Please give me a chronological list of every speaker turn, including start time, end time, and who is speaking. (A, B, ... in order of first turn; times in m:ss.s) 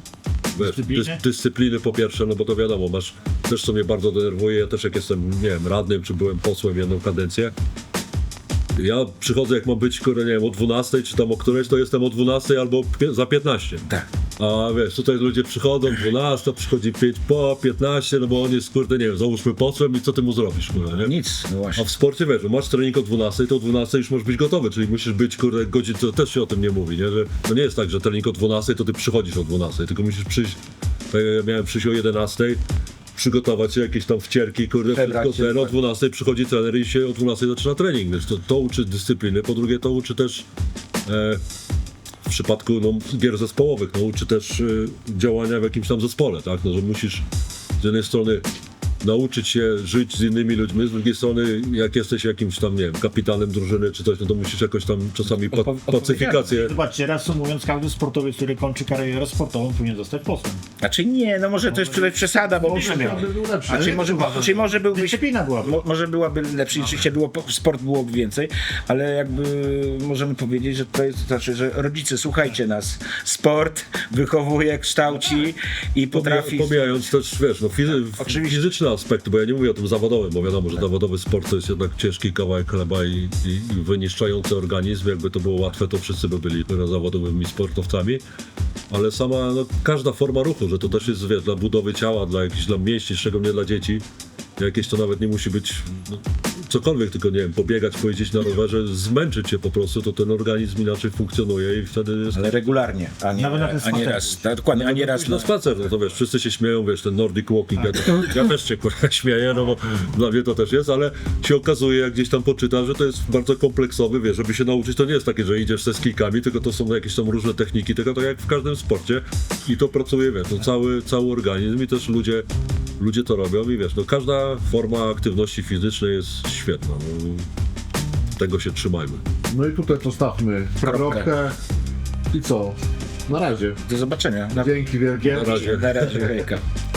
0:00.5-0:07.5 A
0:00.6-0:01.2 B
0:08.8-0:13.9 A
0:14.4-0:21.1 A
0:21.0-0:21.8 C
0:21.8-0:30.6 A
0:31.1-0:32.6 A
0:33.2-0:40.4 A
0:34.9-0:35.7 C
0:41.0-0:41.4 A
0:42.2-0:47.2 A
0:47.8-0:48.4 A
0:49.0-0:56.8 A
0:55.4-0:56.6 C
0:56.5-1:00.6 B
1:00.8-1:17.1 C
1:01.7-1:05.8 B
1:02.6-1:04.4 D
1:16.1-1:28.2 A
1:17.9-1:18.7 C
1:28.9-1:34.0 A
1:34.6-1:42.6 A
1:42.3-1:45.5 C
1:43.4-1:44.4 B
1:44.7-2:02.4 A
2:03.0-2:07.5 A
2:08.4-2:09.2 A
2:09.5-2:11.6 D
2:10.8-2:11.3 C
2:12.3-2:13.8 D
2:13.8-2:16.6 C
2:14.5-2:15.8 D
2:15.2-2:16.4 A